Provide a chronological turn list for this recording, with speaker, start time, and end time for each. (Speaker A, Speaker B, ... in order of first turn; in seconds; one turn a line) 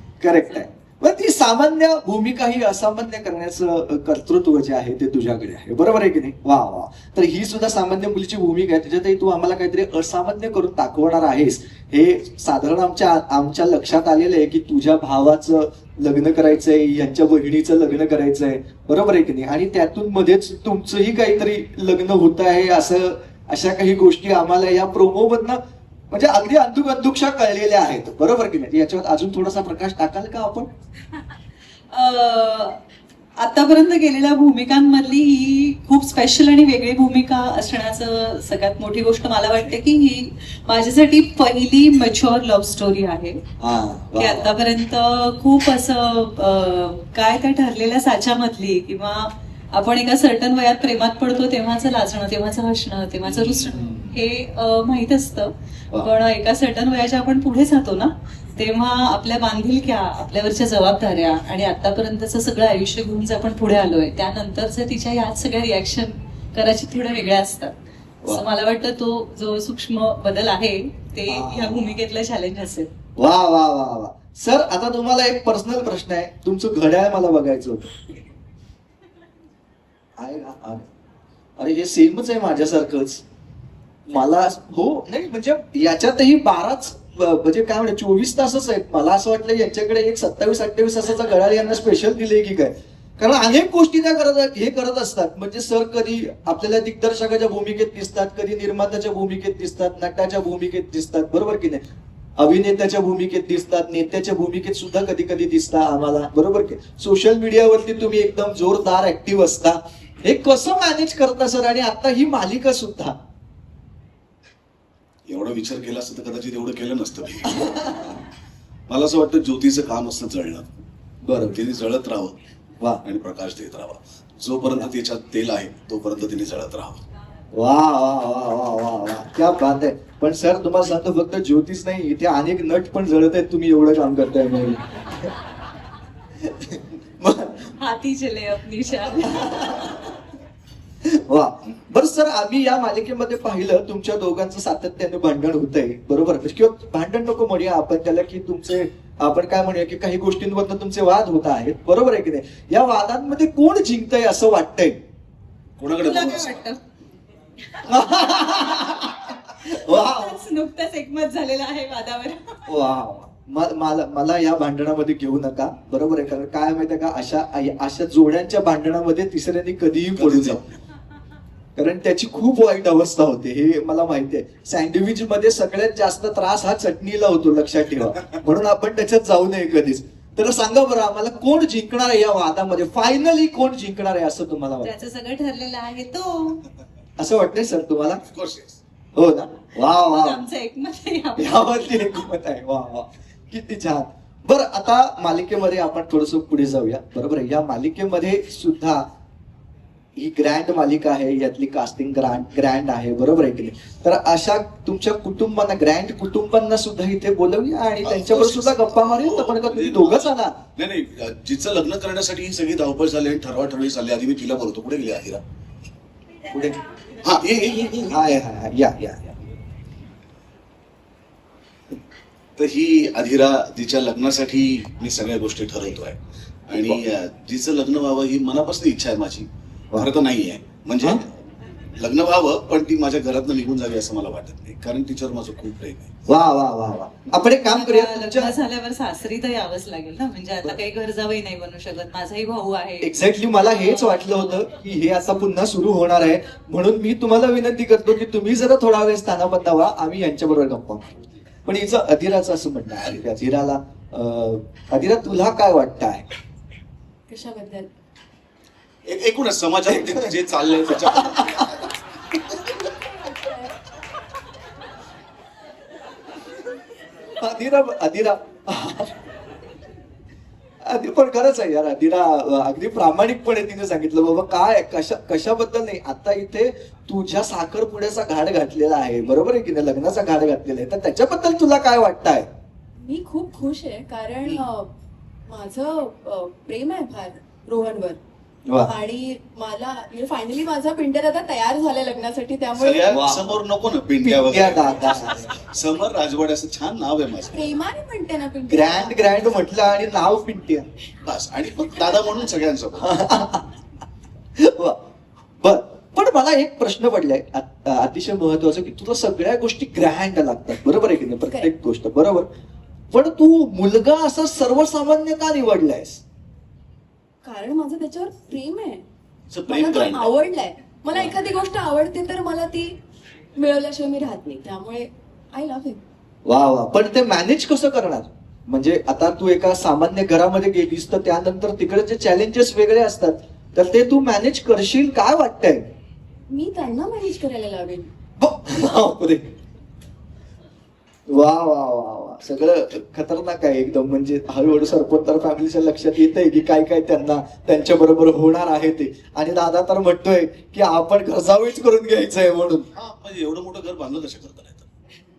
Speaker A: 0.2-25.6
Speaker A: 26.1-30.7
Speaker B: 31.9-32.8
Speaker B: 33.4-43.4
Speaker A: 43.6-44.5
Speaker B: 44.2-67.7
Speaker A: 53.2-54.2
Speaker B: 68.3-72.9
Speaker A: 71.3-72.0
Speaker A: 73.2-78.0
Speaker A: 80.2-80.8
Speaker A: 81.6-83.2
Speaker A: 84.1-101.8
Speaker A: 102.4-113.2
Speaker C: 115.3-118.0
Speaker A: 117.5-118.2
Speaker C: 118.9-120.7
Speaker A: 121.2-121.6
Speaker C: 121.5-122.4
Speaker C: 123.0-127.0
Speaker A: 127.5-135.3
Speaker A: 136.4-137.7
Speaker B: 137.8-139.7
Speaker A: 139.2-140.1
Speaker A: 141.0-155.0
Speaker C: 155.8-156.7
Speaker B: 155.9-156.8
Speaker A: 157.8-160.4
Speaker B: 159.7-162.7
Speaker A: 162.7-170.6
Speaker C: 170.2-170.8
Speaker A: 171.8-184.9
Speaker B: 184.8-186.6
Speaker A: 187.2-188.2
Speaker C: 188.2-188.8
Speaker A: 189.2-190.4
Speaker B: 190.0-192.0
Speaker A: 191.4-199.0
Speaker A: 200.2-210.6
Speaker C: 208.0-215.4
Speaker A: 216.5-216.8
Speaker C: 217.2-218.1
Speaker A: 217.9-219.4
Speaker C: 222.6-226.2
Speaker C: 226.7-231.3
Speaker A: 226.7-227.0
Speaker C: 232.0-236.1
Speaker A: 236.3-238.5
Speaker B: 237.4-243.1
Speaker A: 243.0-256.2
Speaker B: 243.8-244.6
Speaker D: 257.3-257.9
Speaker C: 259.1-261.8
Speaker A: 259.9-260.3
Speaker A: 261.2-261.7
Speaker D: 262.6-263.8
Speaker A: 267.4-269.2
Speaker A: 270.8-282.5
Speaker D: 283.0-284.9
Speaker D: 285.5-288.2
Speaker A: 288.7-288.9
Speaker D: 288.8-293.2
Speaker C: 292.8-297.8
Speaker A: 293.1-293.5
Speaker A: 294.2-295.5
Speaker D: 297.4-299.6
Speaker A: 298.7-300.9
Speaker C: 301.2-303.1
Speaker A: 303.0-303.7
Speaker A: 304.6-305.0
Speaker A: 305.6-312.5
Speaker A: 313.1-316.2
Speaker D: 317.4-319.1
Speaker C: 319.5-320.4
Speaker D: 319.7-322.9
Speaker D: 323.6-326.0
Speaker A: 326.5-335.9
Speaker D: 336.5-338.1
Speaker A: 338.4-339.5
Speaker A: 341.3-352.9
Speaker C: 353.0-354.9